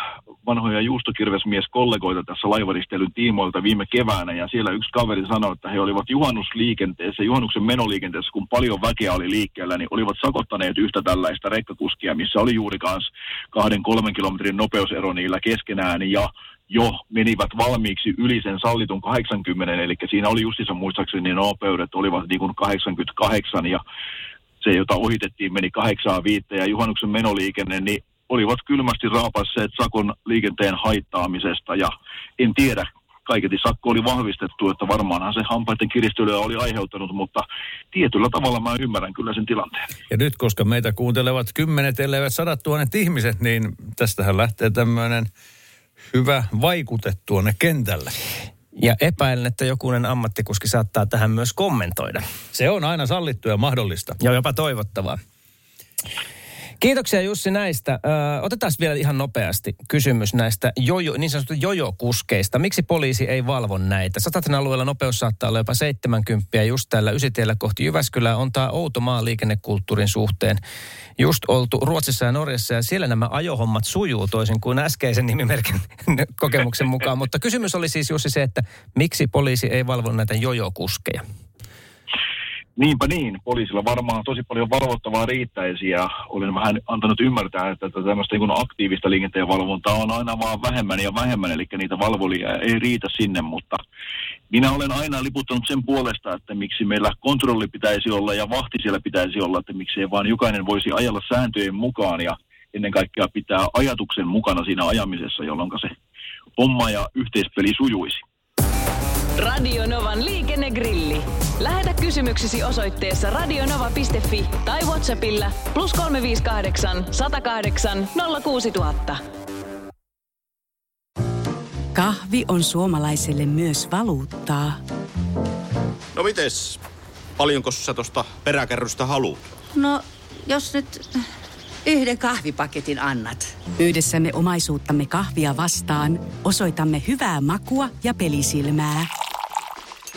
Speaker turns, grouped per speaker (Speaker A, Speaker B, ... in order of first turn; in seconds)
Speaker A: 0.4-23.8, 24.6-39.8, 82.8-93.8, 94.5-105.9, 106.6-108.2
Speaker B: 40.1-45.3, 46.1-48.1, 52.5-54.1
Speaker C: 48.8-52.2, 54.2-55.2, 56.8-70.6, 71.2-81.2
Speaker D: 109.4-119.2
Speaker E: 121.9-124.8, 133.8-139.1
Speaker F: 126.2-126.8, 127.4-129.4
Speaker G: 129.7-131.3, 131.8-133.5